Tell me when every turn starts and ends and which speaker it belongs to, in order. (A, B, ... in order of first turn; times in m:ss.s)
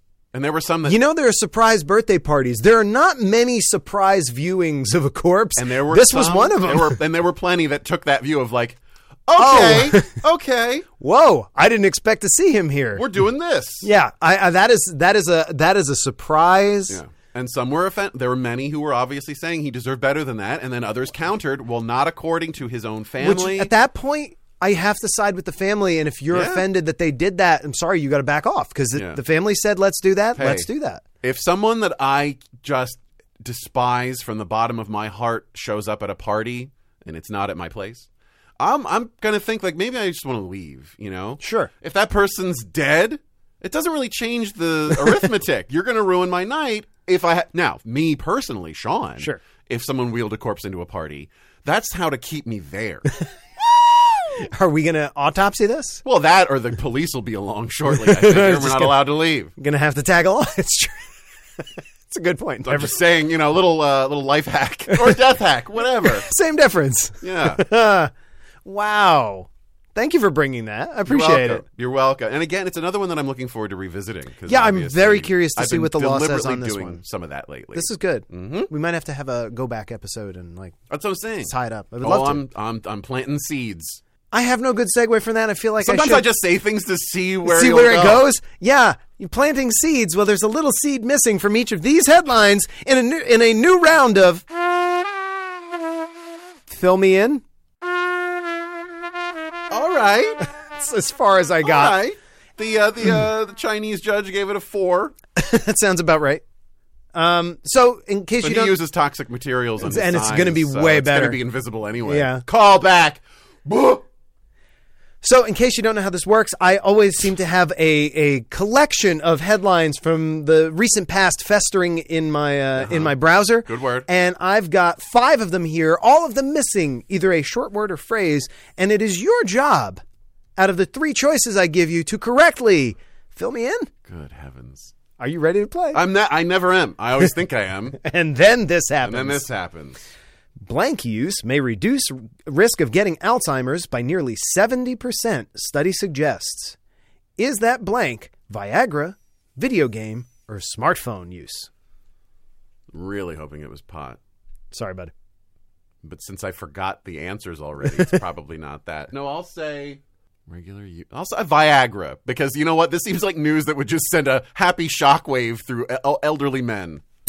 0:00.3-0:01.0 A
0:00.8-0:07.0 B
0:05.6-0:10.9 A
0:09.4-0:10.1 B
0:11.0-0:13.0 B
0:12.9-0:13.9 A
0:13.8-0:17.0 B
0:16.9-0:23.7 A
0:23.2-0:31.0 B
0:26.3-0:26.6 A
0:28.9-0:29.2 A
0:30.4-0:30.7 A
0:31.2-0:38.1 A
0:38.6-0:53.1 A
0:41.4-0:41.7 B
0:53.8-0:56.0 B
0:56.0-0:59.5 A
0:57.9-0:59.0 B
0:59.6-1:02.9 B
1:02.6-1:06.3 A
1:04.9-1:05.2 B
1:06.0-1:08.1 B
1:07.2-1:07.6 A
1:08.6-1:11.6 B
1:11.0-1:18.7 A
1:14.5-1:17.0 B
1:17.7-1:20.8 B
1:20.9-1:24.0 A
1:21.4-1:22.4 B
1:24.3-1:26.3 B
1:25.8-1:28.2 A
1:27.4-1:34.4 B
1:36.7-1:37.4 B
1:39.7-1:40.5 A
1:40.6-1:42.0 B
1:41.6-1:45.1 A
1:45.4-1:46.4 B
1:47.1-1:48.8 B
1:48.4-1:54.0 A
1:49.8-1:51.4 B
1:52.0-1:52.4 B
1:55.2-2:10.0 B
2:02.8-2:03.1 A
2:03.6-2:04.1 A
2:10.6-2:13.9 B
2:14.0-2:14.9 A
2:15.2-2:16.0 B
2:15.9-2:18.0 A
2:17.9-2:19.4 B
2:19.0-2:20.0 A
2:20.6-2:26.8 B
2:27.4-2:31.7 B
2:32.9-2:34.2 A
2:34.7-2:35.1 B
2:36.0-2:47.0 A